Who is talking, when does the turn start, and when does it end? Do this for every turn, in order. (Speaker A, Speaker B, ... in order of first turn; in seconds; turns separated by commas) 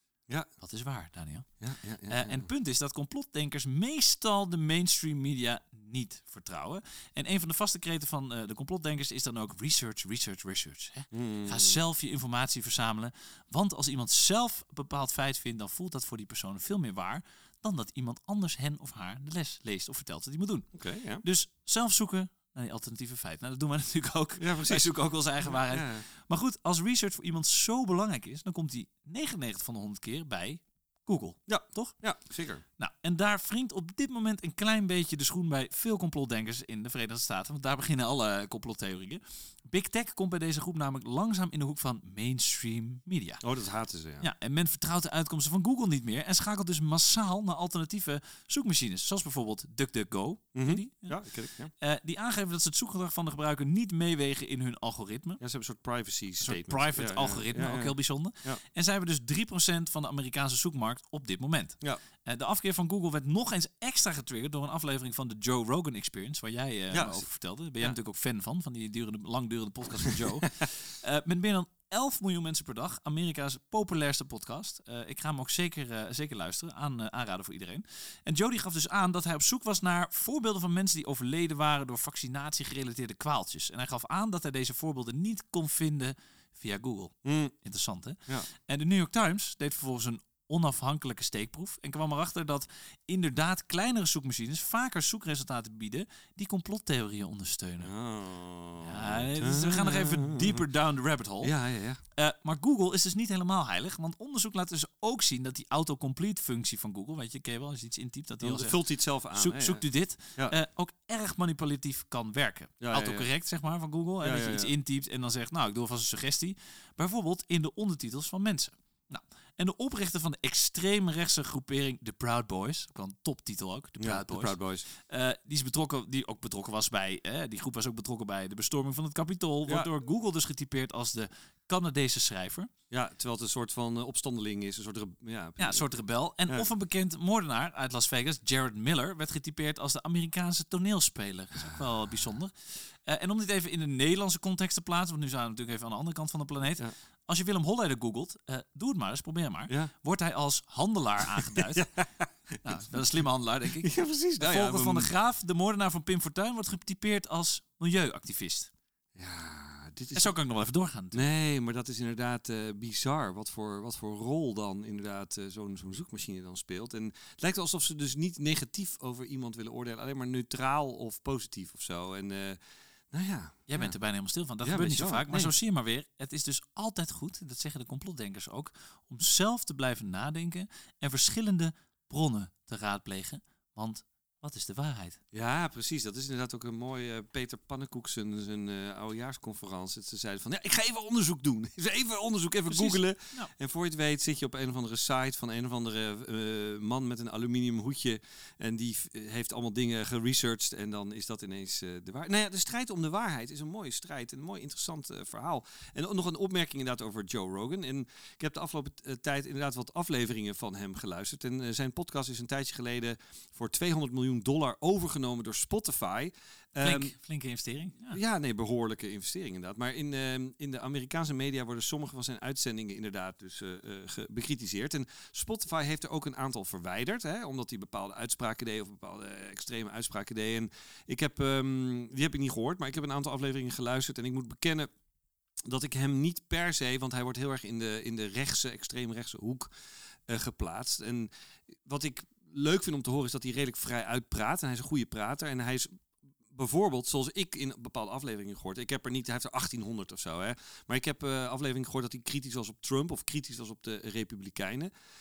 Speaker A: 0.6-1.5, Speaker B: 1.6-2.5, Speaker A: 2.1-20.7, Speaker B: 11.1-11.8, Speaker B: 20.7-21.2, Speaker A: 21.2-32.0, Speaker B: 24.4-24.9, Speaker B: 25.4-26.0, Speaker B: 31.5-32.6, Speaker A: 32.8-43.4, Speaker B: 43.4-44.3, Speaker A: 44.2-51.2, Speaker B: 50.5-51.7, Speaker A: 51.8-55.4, Speaker B: 55.4-58.6, Speaker A: 56.4-97.9, Speaker B: 66.9-67.2, Speaker B: 70.0-70.6, Speaker B: 87.2-87.5, Speaker B: 97.8-100.7, Speaker A: 98.8-101.5, Speaker B: 101.4-102.0, Speaker A: 102.2-108.8, Speaker B: 108.4-109.8, Speaker A: 109.3-132.7, Speaker B: 112.8-113.3, Speaker B: 114.2-114.7, Speaker B: 124.0-124.8, Speaker B: 132.9-135.8, Speaker A: 135.6-151.9, Speaker B: 141.6-141.9, Speaker B: 151.3-152.6, Speaker A: 152.6-158.7, Speaker B: 153.8-155.1, Speaker B: 159.2-160.3, Speaker A: 160.1-161.2, Speaker B: 161.1-172.6, Speaker B: 173.1-173.9, Speaker A: 173.7-185.2, Speaker B: 174.6-175.5, Speaker B: 185.3-217.1, Speaker A: 192.7-193.5, Speaker A: 216.8-218.2, Speaker B: 218.1-234.9, Speaker B: 235.6-239.7, Speaker B: 240.3-241.3, Speaker B: 241.8-246.0, Speaker B: 246.5-254.9